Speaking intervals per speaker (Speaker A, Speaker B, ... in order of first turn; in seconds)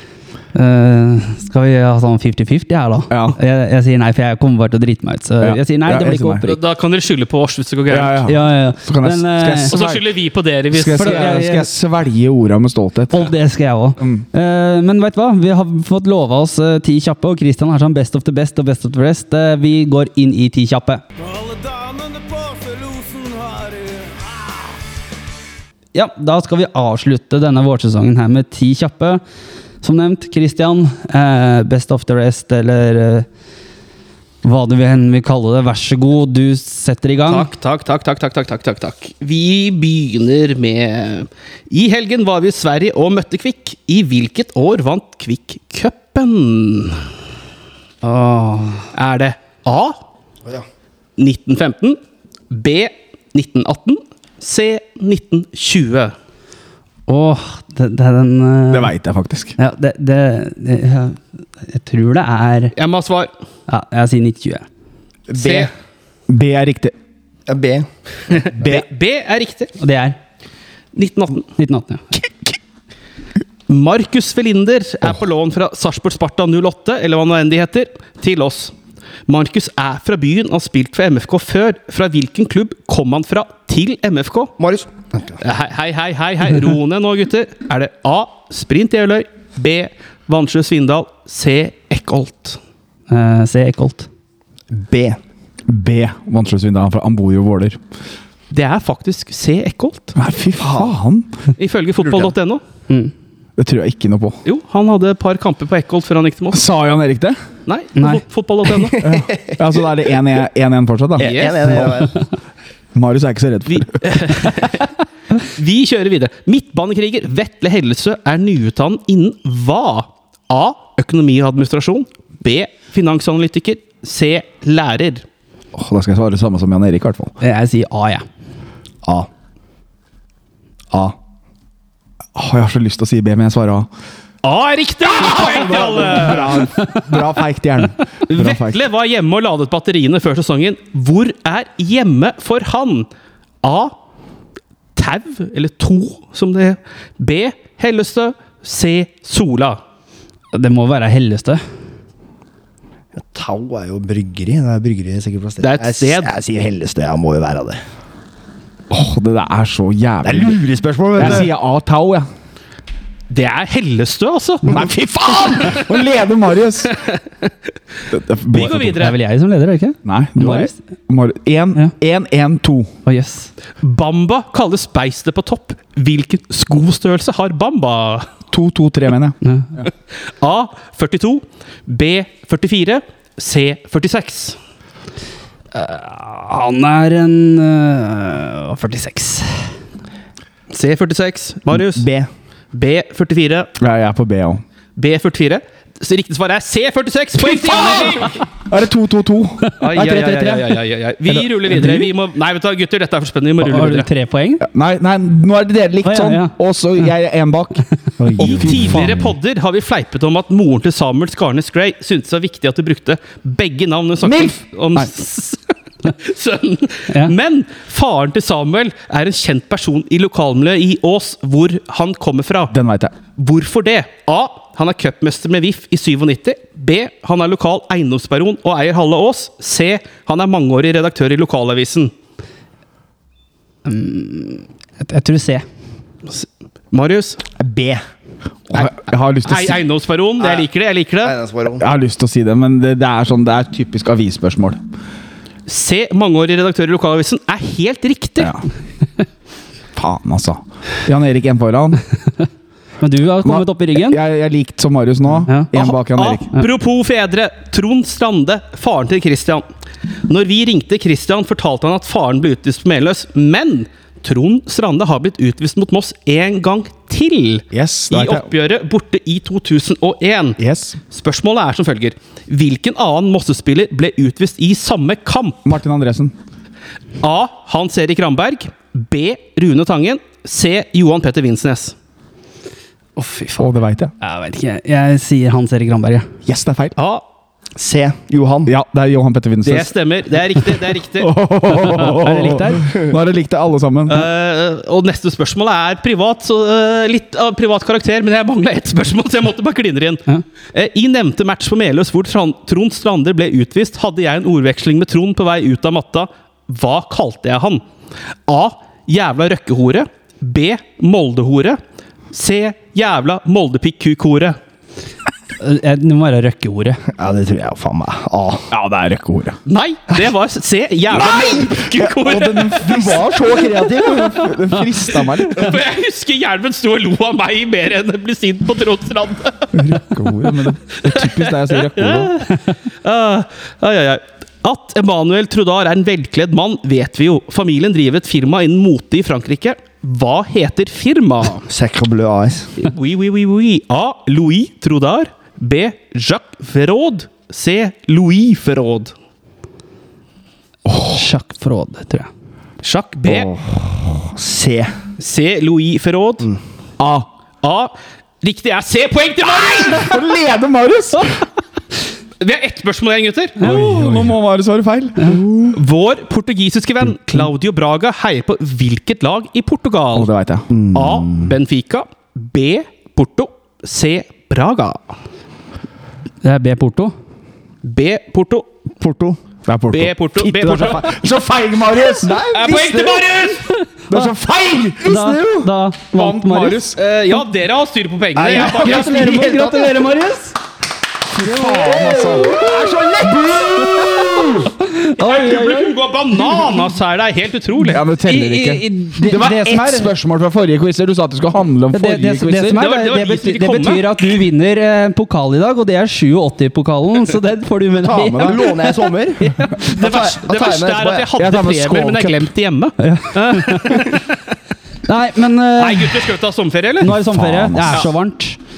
Speaker A: 0.5-6.6, 8.2-9.7, 10.9-11.7, 13.1-21.0, 25.9-29.2, 29.8-33.3, 34.4-37.5, 48.0-48.9, 57.1-58.9, 59.6-62.7, 63.7-64.6, 69.8-70.2, 71.5-72.2, 93.1-94.1, 108.0-108.2, 127.4-128.2, 136.7-137.1, 150.5-151.6, 168.9-170.7, 173.1-173.5, 179.4-179.8, 185.7-189.7, 199.7-200.7, 203.6-204.6, 206.0-206.5, 217.1-217.3, 233.8-235.6, 253.0-254.2, 283.2-283.6, 284.2-286.3, 291.8-292.9, 315.6-317.0, 351.0-352.3, 363.6-364.4, 376.4-377.1, 385.0-386.9, 388.5-390.6, 391.6-392.8, 394.5-395.9, 398.2-400.1, 401.9-409.9, 413.0-414.1, 415.1-416.2, 417.0-418.6
Speaker B: 3.1-3.4, 5.4-6.4, 7.9-10.1, 10.7-13.3, 58.7-59.5, 66.3-66.9, 95.7-97.8, 100.2-101.3, 103.6-104.4, 106.5-107.4, 109.0-112.0, 112.9-114.2, 125.7-127.3, 132.3-133.9, 135.1-138.8, 158.9-162.3, 164.7-167.0, 168.1-169.1, 170.0-172.9, 178.5-179.4, 193.8-194.6, 197.4-199.7, 201.3-202.0, 204.6-209.3, 214.2-215.0, 222.7-223.1, 238.7-239.8, 241.8-244.8, 248.4-248.6, 249.9-252.0, 253.4-256.5, 267.7-268.5, 270.6-271.0, 275.6-276.3, 283.6-284.1, 286.4-286.9, 288.6-289.9, 290.5-294.3, 318.7-319.6, 321.1-325.8, 329.7-332.4, 350.9-351.2, 357.0-357.3, 359.6-361.4, 363.6-365.8, 370.1-370.7, 379.6-382.4, 384.1-387.0, 391.3-394.7, 397.8-402.8, 408.0-408.6, 411.4-412.5, 417.2-418.1
Speaker C: 6.4-8.3, 9.7-11.4, 37.3-47.0, 48.9-50.0, 51.2-56.1, 62.7-63.3, 65.3-65.7, 68.3-69.8, 70.9-71.5, 73.7-78.7, 79.3-84.5, 85.4-92.6, 98.5-100.2, 101.6-102.6, 104.4-106.6, 107.7-109.0, 111.2-112.0, 113.7-125.2, 134.4-136.7, 138.3-143.1, 143.6-143.9, 144.9-149.8, 155.6-156.3, 163.3-164.8, 165.6-165.8, 166.9-167.5, 168.5-169.2, 173.8-178.3, 180.2-184.6, 190.7-192.1, 192.7-193.7, 194.9-198.4, 199.8-204.1, 208.4-222.7, 223.4-232.1, 236.3-237.4, 239.4-241.3, 245.7-248.5, 255.7-259.6, 260.2-270.6, 271.1-275.7, 277.2-281.9, 287.0-287.2, 289.6-291.3, 294.1-307.8, 308.5-311.8, 312.3-314.6, 319.6-323.2, 325.2-329.9, 331.1-341.7, 342.8-349.1, 352.8-353.5, 355.2-356.5, 357.6-360.2, 362.4-363.7, 365.7-370.3, 370.9-375.0, 377.8-378.7, 379.9-381.1, 382.5-383.7, 386.9-389.4, 395.2-398.0, 402.7-404.2, 409.8-414.4, 415.8-417.2
Speaker D: 21.2-24.2
Speaker E: 65.3-65.7, 67.5-68.8, 84.6-85.4, 94.7-95.2, 100.6-100.9, 108.9-109.6, 111.2-112.2, 153.2-157.8, 160.2-161.5, 191.7-192.3, 208.2-208.8, 237.6-238.0, 240.4-240.7, 241.2-241.8, 287.8-288.7, 317.1-318.7, 323.0-324.5, 341.7-342.7, 353.2-354.9, 370.7-371.5, 379.0-379.4, 382.1-383.6, 388.4-390.1, 391.8-392.6, 408.3-411.3